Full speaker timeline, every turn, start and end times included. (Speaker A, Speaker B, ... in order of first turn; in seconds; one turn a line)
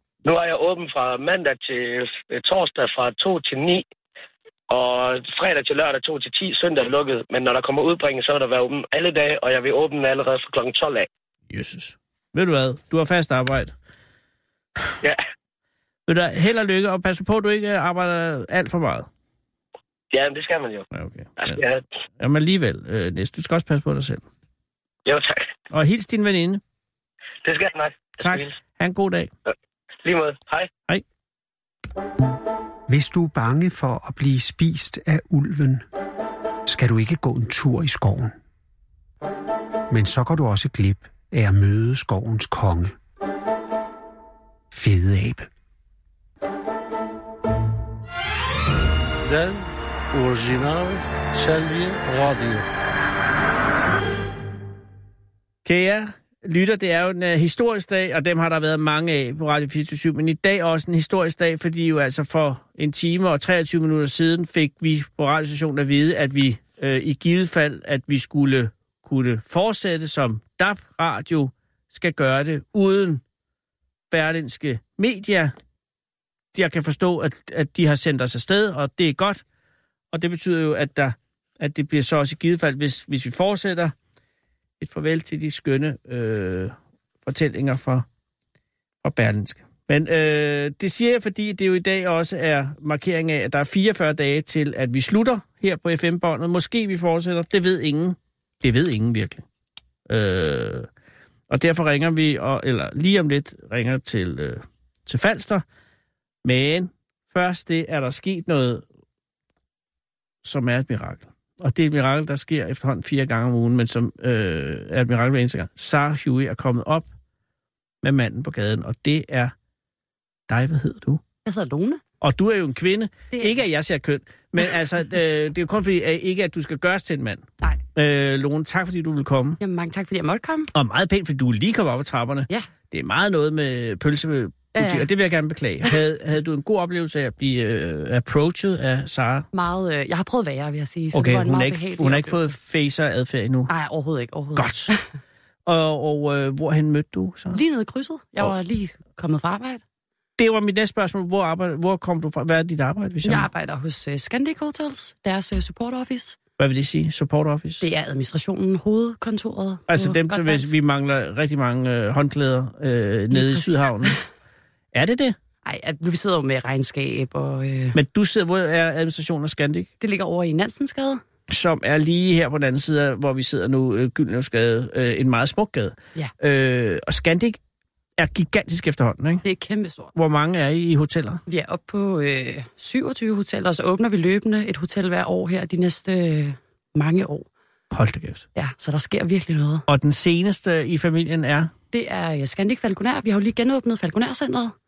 Speaker A: 0.2-3.9
Speaker A: 4.7-11.1
Speaker B: 11.5-13.7
Speaker B: 16.1-19.1
Speaker A: 20.1-20.9
Speaker B: 20.9-21.6
Speaker A: 21.4-21.8
Speaker B: 22.2-24.2
Speaker A: 25.1-25.4
Speaker B: 25.7-26.6
Speaker A: 27.4-28.5
Speaker B: 28.2-29.3
Speaker A: 30.0-30.7
Speaker C: 32.9-35.9
Speaker C: 36.7-38.4
Speaker C: 39.9-43.0
Speaker C: 44.7-45.5
Speaker D: 49.2-52.7
Speaker B: 55.6-73.2
Speaker B: 74.1-75.5
Speaker B: 76.5-79.4
Speaker B: 80.1-83.9
Speaker B: 84.8-86.7
Speaker B: 87.3-88.1
Speaker B: 89.0-99.4
Speaker B: 100.1-100.9
Speaker B: 101.5-105.6
Speaker B: 106.4-108.8
Speaker B: 110.4-117.1
Speaker B: 118.0-119.5
Speaker B: 120.5-121.2
Speaker E: 121.5-122.0
Speaker B: 122.2-129.6
Speaker E: 123.3-123.7
Speaker E: 129.6-130.7
Speaker B: 130.7-139.5
Speaker E: 134.8-135.1
Speaker E: 139.5-142.5
Speaker B: 141.1-143.7
Speaker E: 143.7-145.0
Speaker B: 144.6-144.9
Speaker B: 145.7-147.6
Speaker E: 147.5-149.8
Speaker B: 150.4-153.5
Speaker E: 153.2-156.4
Speaker B: 156.6-157.8
Speaker E: 157.8-160.7
Speaker B: 159.9-164.2
Speaker E: 163.3-164.2
Speaker B: 164.9-165.4
Speaker E: 165.6-168.0
Speaker B: 167.9-169.9
Speaker E: 170.0-171.2
Speaker B: 171.5-177.6
Speaker B: 178.2-179.4
Speaker E: 179.4-180.1
Speaker B: 180.2-181.4
Speaker E: 181.5-187.5
Speaker B: 187.9-188.5
Speaker E: 188.6-189.9
Speaker B: 189.9-191.7
Speaker E: 191.9-194.7